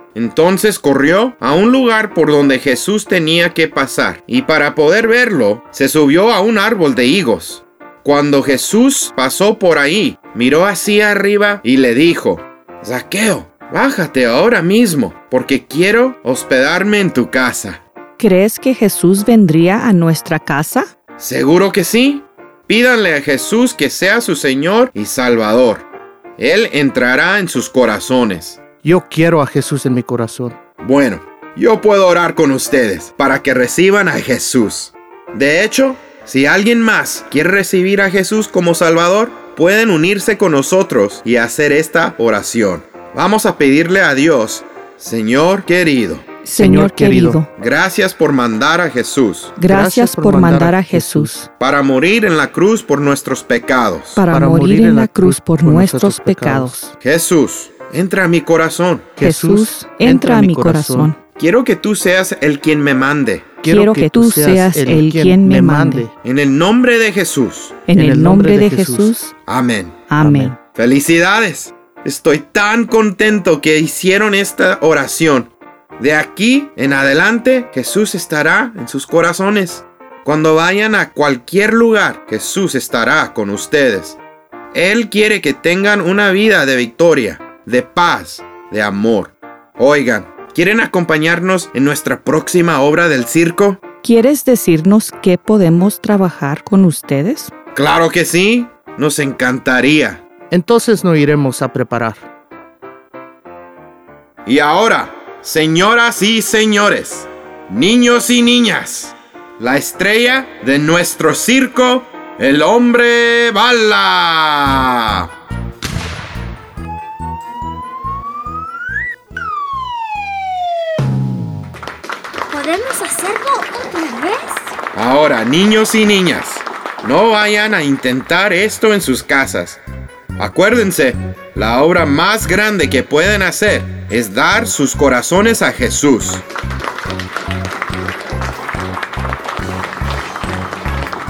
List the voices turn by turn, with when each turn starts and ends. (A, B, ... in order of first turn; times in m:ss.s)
0:00.2-0:17.8 A
0:18.2-0:20.9 B
0:21.2-0:25.9 A
0:26.4-0:28.6 A
0:28.8-0:30.6 C
0:30.8-0:46.2 A
0:46.4-0:47.5 B
0:46.6-0:47.4 C
0:47.6-0:49.6 A
0:49.6-0:51.5 B
0:49.7-0:51.4 C
0:51.6-0:54.2 A
0:54.2-0:57.0 B
0:54.3-0:56.8 C
0:57.0-0:59.1 A
0:59.2-1:01.1 C
0:59.2-1:01.2 B
1:01.4-1:03.6 A
1:03.6-1:06.1 C
1:03.7-1:06.1 B
1:06.2-1:07.8 A
1:07.9-1:09.3 B
1:08.0-1:09.2 C
1:09.5-1:10.1 A
1:10.1-1:10.6 B
1:10.2-1:10.5 C
1:10.8-1:24.2 A
1:24.7-1:33.8 A
1:34.0-1:37.5 B
1:37.8-1:40.2 A
1:40.5-1:42.3 C
1:44.5-1:55.3 A
2:02.5-2:04.6 D
2:04.9-2:09.8 A
2:10.4-2:16.4 A